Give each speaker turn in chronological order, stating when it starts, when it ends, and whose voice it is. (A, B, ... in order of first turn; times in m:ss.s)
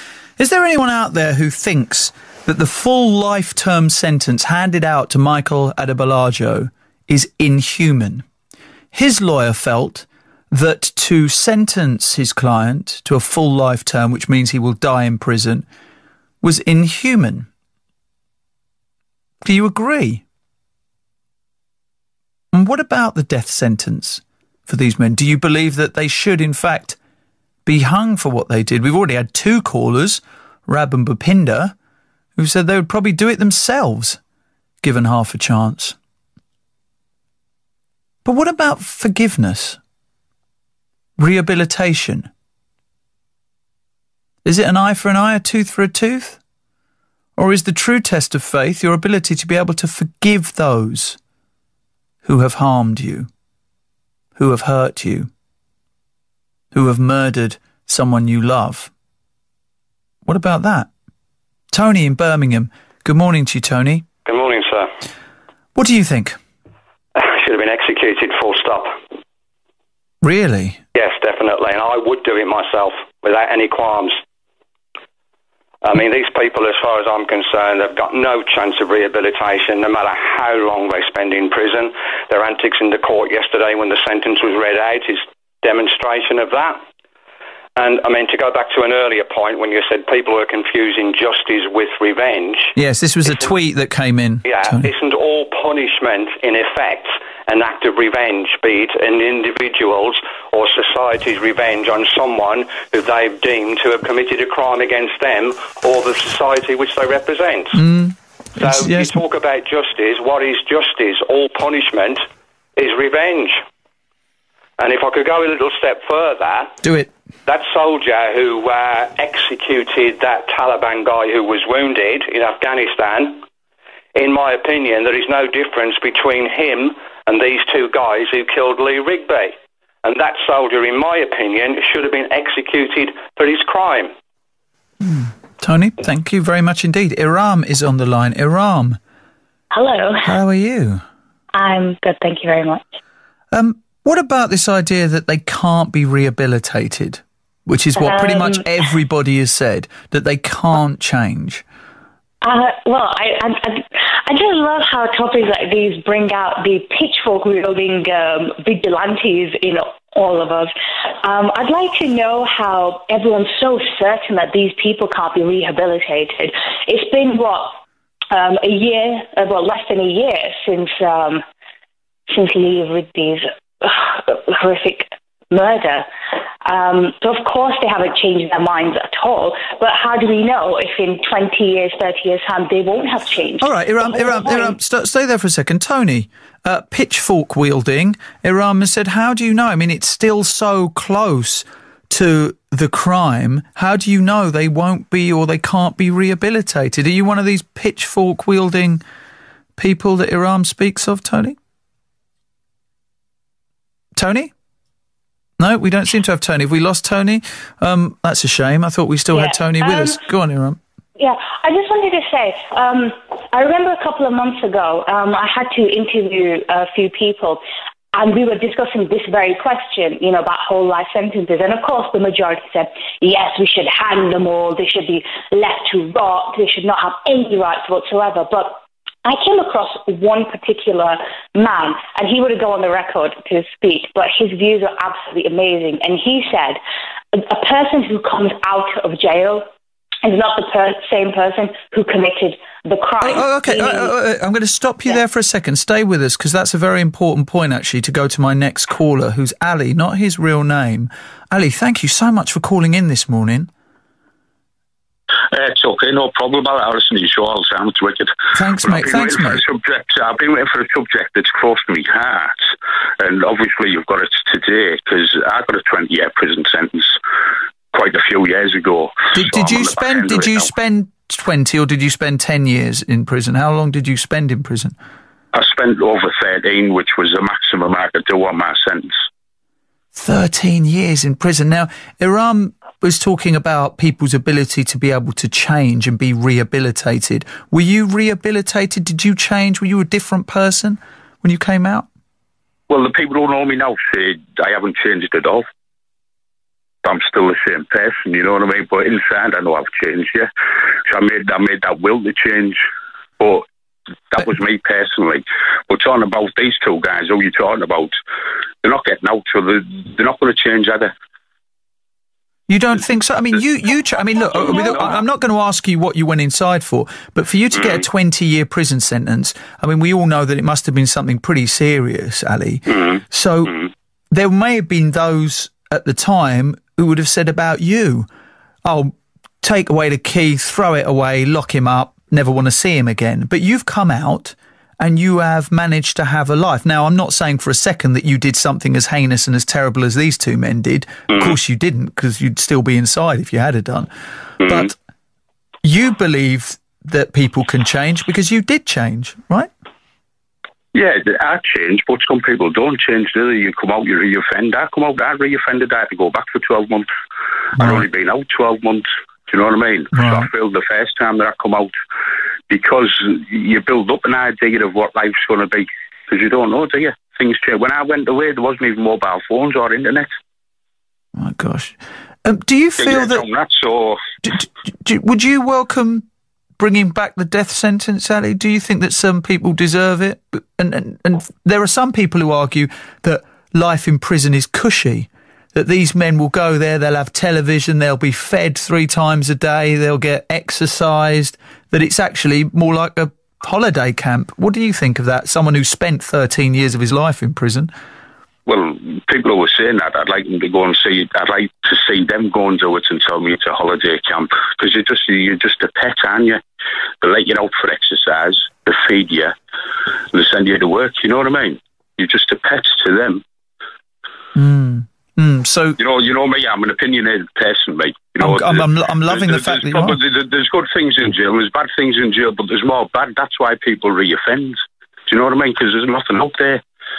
0:00.4-0:08.2 A
0:08.9-0:15.6 A
0:16.4-0:17.5 A
0:19.4-0:20.2 A
0:22.5-0:27.0 A
0:27.6-0:31.7 A
0:32.4-0:34.2 A
0:34.8-0:36.0 A
0:38.2-0:39.8 A
0:41.2-0:42.3 A
0:44.4-0:46.4 A
0:47.4-0:51.2 A
0:52.2-0:53.3 A
0:54.4-0:55.3 A
0:56.7-0:58.9 A
1:00.2-1:00.9 A
1:01.7-1:04.1 A
1:04.2-1:04.9 B
1:05.8-1:06.4 A
1:07.1-1:09.0 B
1:10.2-1:10.8 A
1:10.9-1:14.2 B
1:15.8-1:26.8 B
1:27.8-1:32.7 B
1:32.8-1:34.9 A
1:34.4-1:47.8 B
1:47.7-1:49.2 A
1:48.6-1:52.2 B
1:52.8-1:53.6 B
1:54.8-1:56.8 B
1:56.8-1:57.1 A
1:57.4-2:03.4 B
2:04.1-2:14.1 B
2:15.0-2:19.0 A
2:19.7-2:20.4 C
2:20.2-2:21.0 A
2:21.5-2:22.8 C
2:23.5-2:31.6 A
2:28.0-2:28.6 C
2:32.4-2:47.8 C
2:48.3-2:51.4 C
2:52.3-2:56.0 C
2:56.6-3:04.8 C
3:03.6-3:19.0 A
3:19.8-3:21.6 A
3:24.2-3:24.5 A
3:25.6-3:30.8 A
3:29.3-3:30.2 C
3:31.2-3:37.6 C
3:38.1-3:56.8 C
3:57.3-3:59.7 C
4:00.2-4:04.1 C
4:03.2-4:13.7 A
4:15.5-4:22.6 D
4:18.5-4:19.6 A
4:23.2-4:27.2 D
4:27.9-4:30.7 D
4:29.3-4:34.9 A
4:35.5-4:39.2 D
4:40.1-4:52.1 A
4:52.9-4:55.7 D
4:57.0-5:00.5 D
5:01.0-5:02.8 D
5:03.4-5:03.6 D
5:04.3-5:08.1 D
5:08.8-5:11.1 D
5:12.7-5:23.8 A
5:24.3-5:28.3 A
5:28.8-5:44.9 A
5:45.8-5:49.7 A
5:50.9-5:57.1 D
5:57.8-6:01.9 D
5:57.8-5:58.0 A
6:00.1-6:00.5 A
6:02.7-6:10.3 D
6:11.3-6:13.4 A
6:13.0-6:14.2 D
6:14.4-6:16.2 A
6:16.8-6:37.9 A
6:38.7-6:46.6 D
6:47.2-6:49.5 D
6:50.3-6:53.4 D
6:54.5-6:56.0 A
6:56.0-7:06.8 D
6:58.4-7:00.2 A